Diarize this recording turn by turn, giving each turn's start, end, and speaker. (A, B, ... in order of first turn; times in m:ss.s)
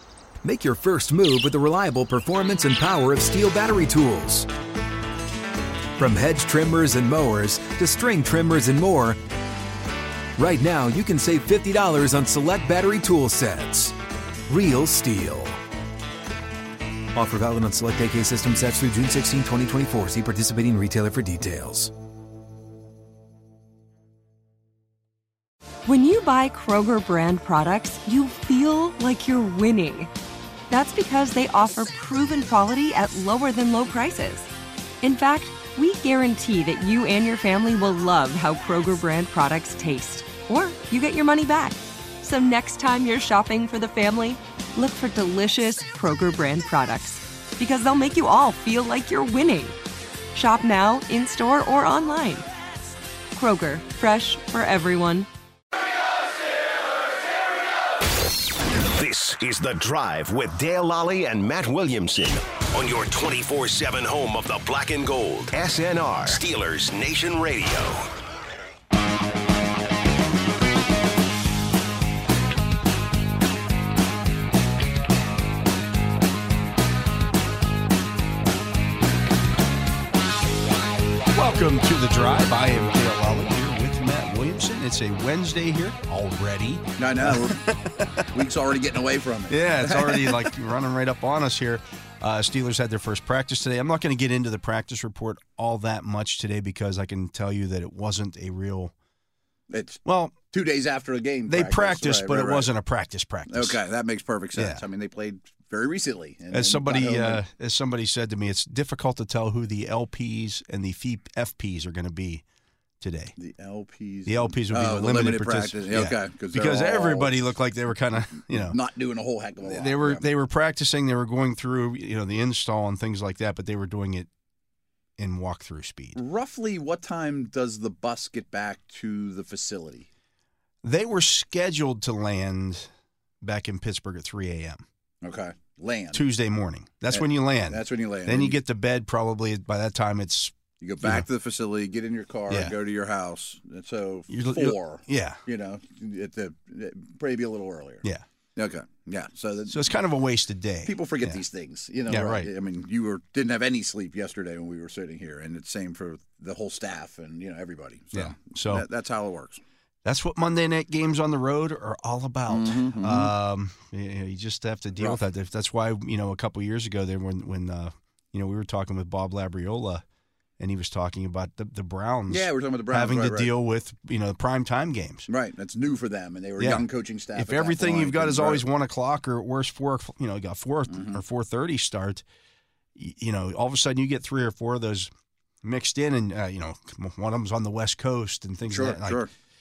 0:00.4-0:04.5 A
0:06.0-0:09.2 A
0:10.4-0:13.9 A
0:14.5-0:15.6 A
0:17.2-0:21.9 A
0:25.9-0:30.1 B
0:30.7-0:34.5 B
0:35.0-0:49.8 B
0:50.3-0:52.5 B
0:53.3-0:55.3 B
0:58.8-1:08.1 C
1:21.3-1:28.0 D
1:27.0-1:27.6 E
1:28.3-1:30.5 E
1:29.5-1:38.9 D
1:39.7-1:42.7 E
1:40.0-1:40.4 D
1:41.5-1:43.8 D
1:43.5-1:47.4 E
1:44.6-1:44.8 D
1:46.5-1:52.4 D
1:53.0-1:53.3 D
1:53.4-1:57.3 E
1:54.3-1:58.8 D
1:58.4-2:00.3 E
1:59.6-2:04.3 D
2:05.2-2:06.2 D
2:06.2-2:10.1 E
2:10.8-2:12.9 D
2:13.4-2:14.8 D
2:15.2-2:16.2 E
2:16.1-2:21.3 D
2:17.1-2:18.6 E
2:20.8-2:28.0 E
2:22.5-2:22.7 D
2:24.3-2:25.4 D
2:28.6-2:29.9 E
2:29.7-2:31.4 D
2:30.8-2:39.6 E
2:32.1-2:32.5 D
2:38.1-2:38.8 D
2:40.0-2:50.0 D
2:42.5-2:43.3 E
2:45.0-2:45.2 E
2:50.6-2:55.3 D
2:52.3-2:53.5 E
2:55.3-2:58.7 E
2:56.6-3:02.2 D
3:00.9-3:01.2 E
3:03.0-3:05.1 D
3:05.6-3:09.2 D
3:08.7-3:09.3 E